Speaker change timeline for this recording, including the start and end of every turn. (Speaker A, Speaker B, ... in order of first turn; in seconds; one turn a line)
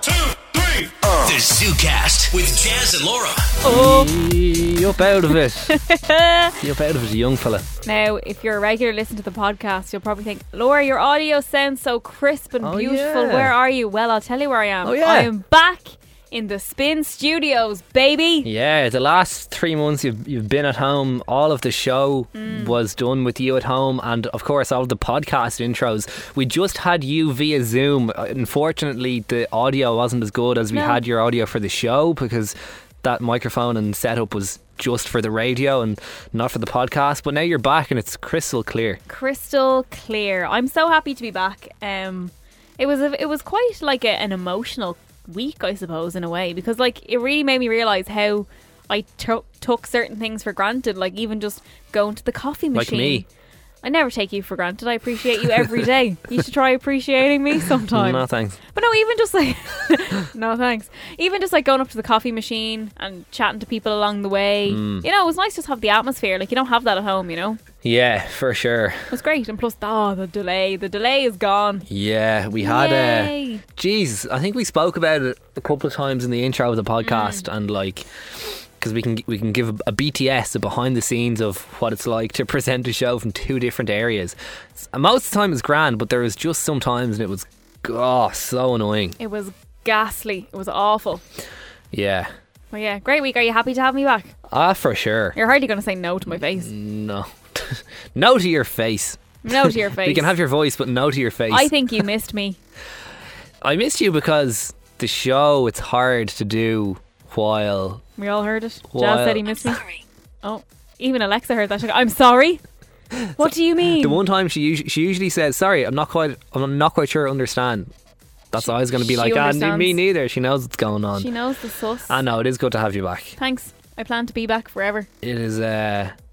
Speaker A: 1.2-3.5
Speaker B: 3.6-4.1
Speaker C: 3.6-5.8
Speaker B: 5.7-6.6
Speaker C: 6.6-7.7
Speaker B: 7.8-18.5
Speaker C: 12.6-13.6
Speaker C: 14.8-15.3
Speaker C: 18.4-39.0
Speaker B: 22.3-22.8
Speaker B: 30.7-31.0
Speaker B: 39.1-53.2
Speaker C: 52.7-53.2
Speaker B: 53.8-67.6
Speaker C: 57.9-58.6
Speaker C: 64.7-65.0
Speaker C: 67.8-69.1
Speaker B: 69.1-71.8
Speaker C: 71.9-78.1
Speaker B: 72.6-73.6
Speaker B: 77.0-77.4
Speaker C: 78.8-89.2
Speaker B: 89.2-91.2
Speaker C: 91.9-92.3
Speaker B: 92.7-94.3
Speaker C: 94.5-95.4
Speaker B: 95.3-96.7
Speaker C: 96.3-101.9
Speaker B: 99.4-100.3
Speaker B: 101.5-102.6
Speaker C: 103.6-108.0
Speaker B: 108.2-109.8
Speaker C: 108.9-109.7
Speaker B: 110.4-112.6
Speaker C: 113.1-117.9
Speaker B: 113.4-114.2
Speaker C: 118.5-121.3
Speaker B: 118.6-120.0
Speaker B: 121.1-122.1
Speaker C: 122.1-123.3
Speaker B: 123.4-125.1
Speaker C: 125.2-126.1